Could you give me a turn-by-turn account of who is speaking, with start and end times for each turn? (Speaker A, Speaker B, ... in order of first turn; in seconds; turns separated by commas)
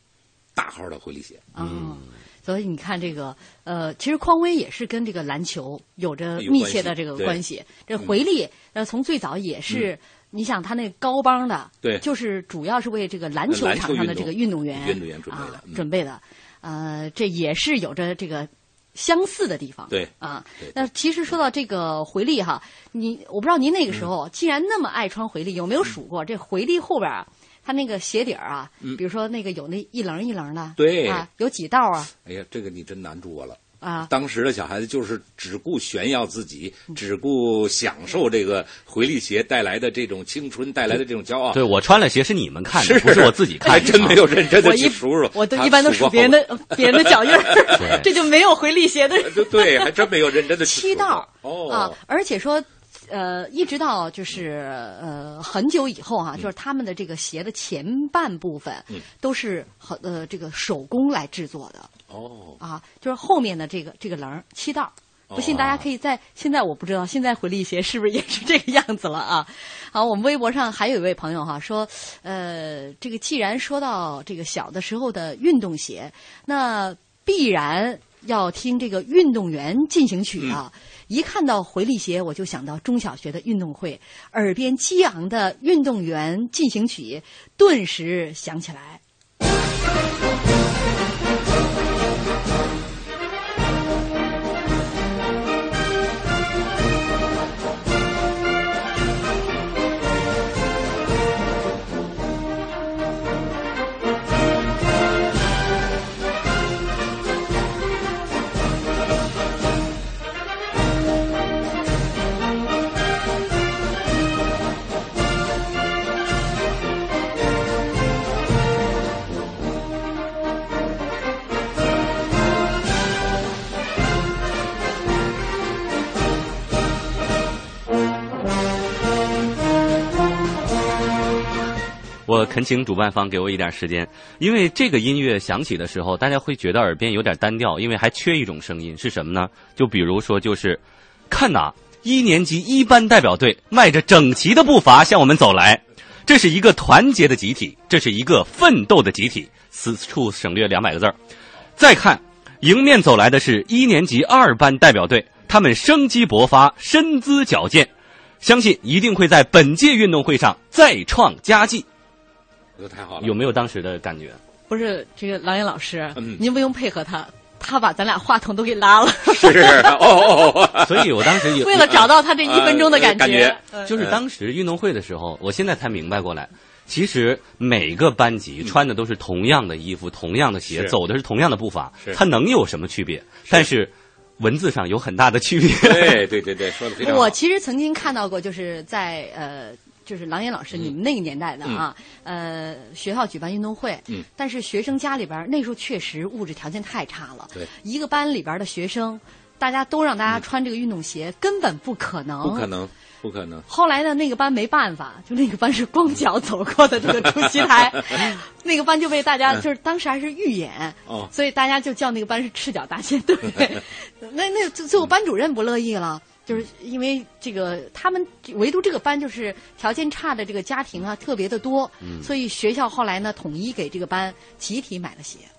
Speaker A: 0.6-1.4, Speaker B: 1.5-32.1, Speaker A: 6.4-7.4, Speaker A: 13.5-15.8, Speaker A: 19.9-20.8, Speaker A: 30.8-31.2, Speaker A: 32.2-41.6, Speaker B: 33.8-34.1, Speaker C: 41.5-44.2, Speaker A: 42.7-48.0, Speaker B: 44.5-49.9, Speaker C: 47.8-48.1, Speaker A: 49.2-52.0, Speaker B: 50.6-61.9, Speaker A: 62.1-62.6, Speaker B: 62.6-89.0, Speaker A: 65.3-65.8, Speaker C: 132.2-151.1, Speaker C: 151.8-157.9, Speaker C: 158.4-161.8, Speaker A: 162.8-163.3, Speaker C: 163.2-164.4, Speaker B: 164.7-170.0, Speaker A: 166.2-166.4, Speaker A: 169.3-171.3, Speaker C: 170.8-172.0, Speaker B: 171.6-173.8, Speaker A: 171.9-174.2, Speaker C: 173.8-186.2, Speaker A: 180.7-180.9, Speaker A: 185.8-187.3, Speaker B: 187.0-202.7, Speaker A: 202.4-203.7, Speaker B: 203.7-225.5, Speaker C: 222.0-222.3